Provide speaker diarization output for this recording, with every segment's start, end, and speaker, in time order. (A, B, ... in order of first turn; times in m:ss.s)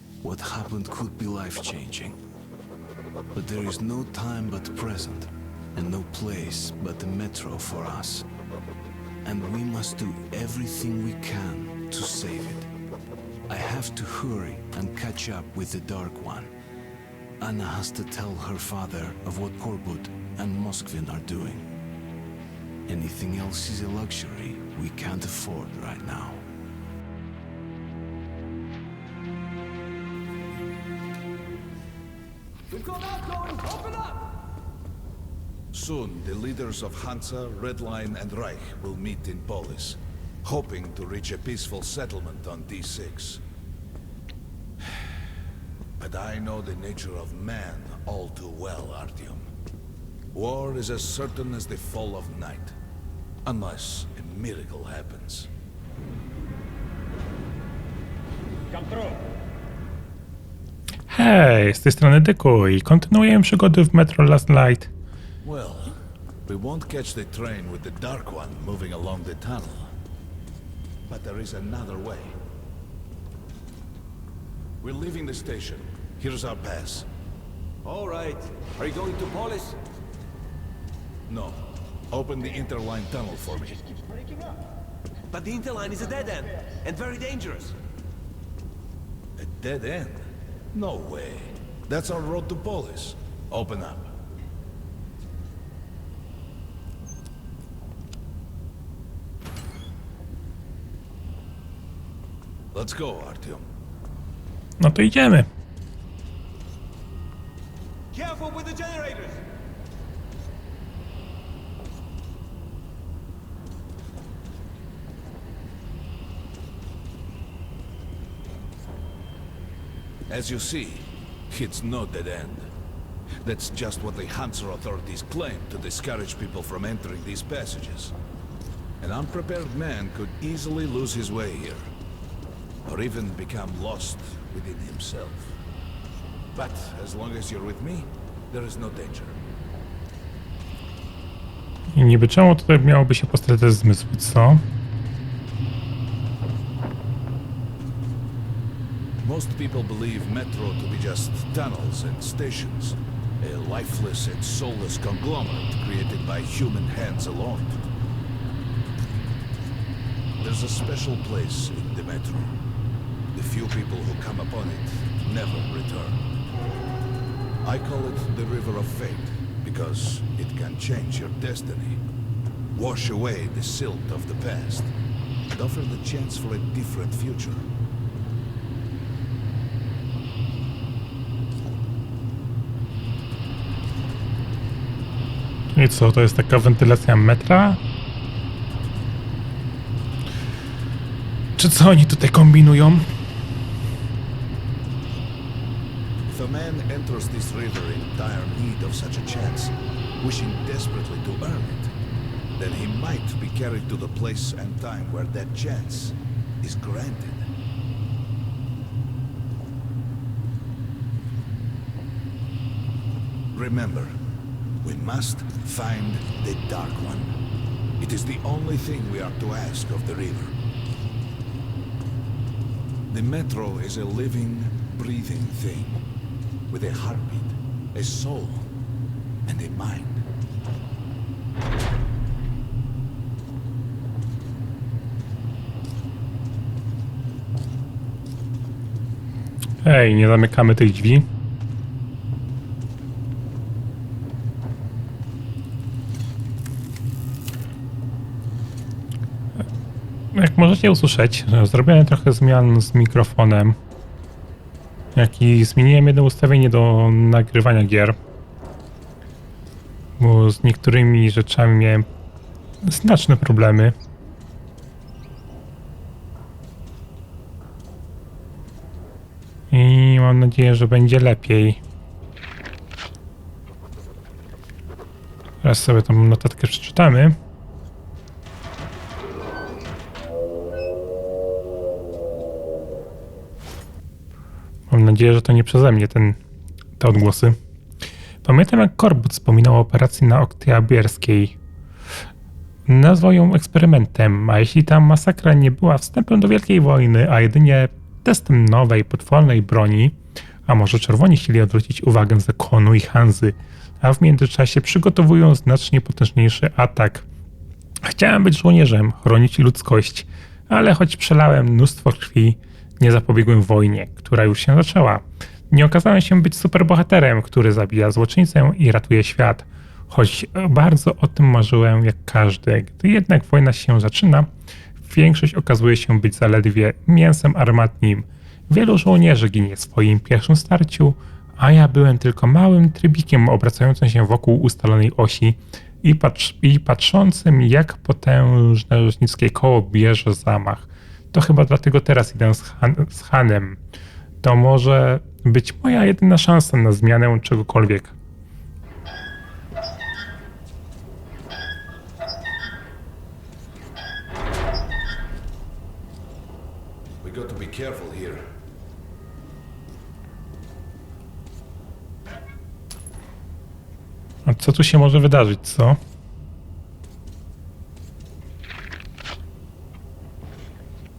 0:00.2-0:02.2 A
0:03.3-0:08.3 A
0:09.2-0:12.7 A
0:13.5-0:16.5 A
0:17.4-0:21.7 A
0:22.9-0:26.5 A
0:32.9-0:34.3 B
0:35.7-0:43.4 C
0:46.0-0:49.5 C
0:50.3-0:52.8 C
0:53.5-0:55.5 C
1:01.1-1:04.9 D
1:05.4-1:05.9 C
1:06.5-1:09.9 C
1:11.1-1:12.3 C
1:14.8-1:17.1 C
1:17.8-1:19.8 B
1:21.3-1:23.8 C
1:25.3-1:27.8 B
1:29.4-1:34.1 C
1:42.7-1:43.7 C
1:44.8-1:45.5 D
1:48.1-1:49.4 B
2:00.3-2:02.7 C
2:03.4-2:08.1 C
2:09.0-2:11.9 C
2:12.9-2:15.6 C
2:16.5-2:19.4 C
2:21.9-2:24.6 D
2:29.2-2:37.8 C
2:40.4-2:42.5 C
2:43.3-2:46.2 C
2:47.6-2:52.0 C
2:52.8-2:54.9 C
2:55.5-2:57.6 C
3:05.7-3:07.8 D
3:11.6-3:13.1 D
3:16.3-3:21.9 C
3:22.6-3:27.5 C
3:33.5-3:34.1 C
3:34.8-3:37.4 C
3:38.0-3:40.6 C
3:43.1-3:46.0 C
3:46.7-3:48.7 C
3:49.5-3:50.2 C
3:59.8-4:01.2 D
4:10.3-4:13.8 D
4:15.2-4:18.2 D
4:20.2-4:22.1 D
4:22.8-4:23.9 D
4:29.7-4:31.8 D
4:35.6-4:37.4 D
4:44.9-4:46.4 D
4:47.0-4:47.6 D
4:48.4-4:51.6 D
4:52.9-5:07.3 D
5:08.0-5:24.5 D
5:25.0-5:43.8 D
5:44.4-5:48.2 D
5:57.2-5:58.4 C
6:04.5-6:06.0 D